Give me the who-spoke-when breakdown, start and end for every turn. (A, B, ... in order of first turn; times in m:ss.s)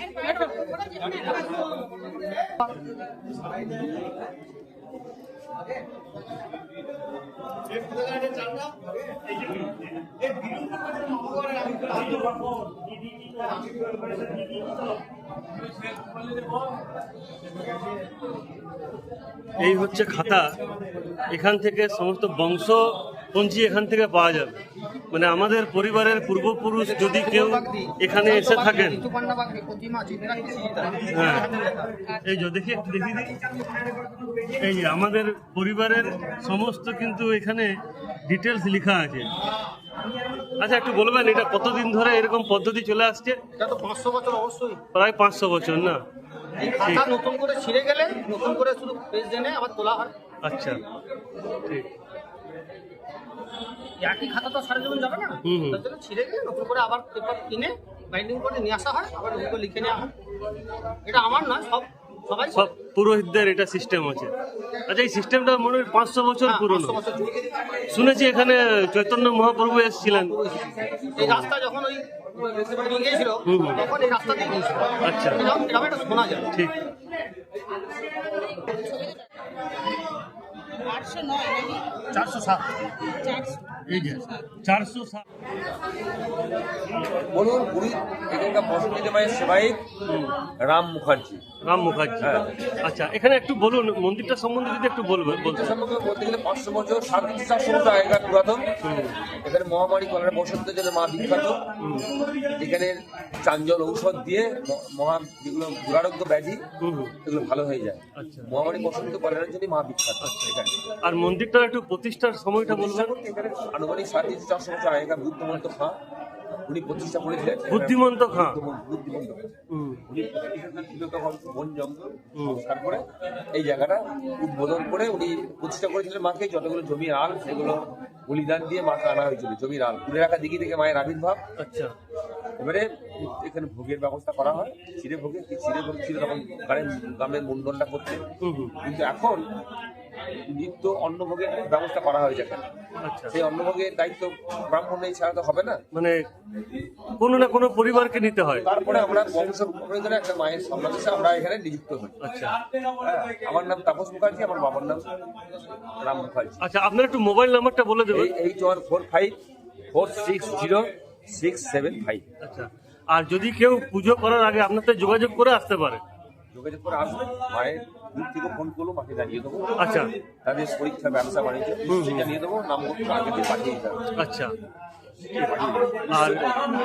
0:00.2-0:01.6 A
0:19.6-0:20.6 B
0:21.3-0:24.6 B
0:25.1-0:29.1 B
0:28.3-0:30.9 C
0:31.1-0:31.6 B
0:32.2-0:33.4 B
0:34.5-0:37.7 B
0:38.2-0:39.3 B
0:40.6-0:43.4 B
0:43.6-0:44.8 C
0:44.9-0:46.0 B
0:46.6-0:47.1 B
0:46.8-0:50.1 C
0:50.4-0:50.8 B
0:54.0-1:00.1 C
0:55.4-0:55.8 B
1:01.1-1:02.5 C
1:02.5-1:04.3 B
1:04.9-1:07.0 B
1:06.5-1:07.2 C
1:07.9-1:10.5 B
1:11.2-1:11.5 B
1:11.6-1:12.0 C
1:12.7-1:13.4 C
1:13.4-1:13.9 B
1:14.0-1:14.8 C
1:15.0-1:15.5 B
1:15.7-1:16.4 C
1:16.5-1:16.8 B
1:18.8-1:19.2 A
1:20.8-1:22.0 A
1:23.2-1:23.7 A
1:23.9-1:25.2 B
1:27.3-1:29.9 D
1:30.1-1:30.4 B
1:30.6-1:31.4 D
1:31.6-1:32.3 B
1:32.2-1:32.5 D
1:32.8-1:35.7 B
1:35.2-1:38.7 D
1:38.8-1:39.2 B
1:39.4-1:41.7 D
1:41.8-1:42.1 B
1:42.5-1:46.6 D
1:46.8-1:47.2 B
1:47.2-1:50.8 D
1:48.1-1:48.5 B
1:50.2-1:53.1 B
1:52.6-1:56.0 D
1:56.7-1:59.5 D
1:57.7-1:58.6 B
1:59.7-2:00.0 B
2:00.0-2:11.4 D
2:11.6-2:11.9 B
2:12.6-2:18.2 D
2:18.4-2:18.8 B
2:18.8-2:19.4 D
2:20.5-2:22.7 D
2:23.0-2:23.4 B
2:23.3-2:25.8 D
2:25.9-2:26.2 B
2:27.2-2:28.7 B
2:28.6-2:32.2 D
2:32.2-2:32.6 B
2:33.0-2:35.0 D
2:35.9-2:36.6 D
2:36.6-2:38.3 B
2:38.1-2:39.4 D
2:39.9-2:42.2 D
2:42.4-2:46.0 B
2:46.5-2:49.8 D
2:49.8-2:50.1 B
2:50.4-2:54.1 D
2:51.9-2:52.3 B
2:54.2-2:54.6 B
2:55.4-2:56.6 D
2:56.1-2:56.5 B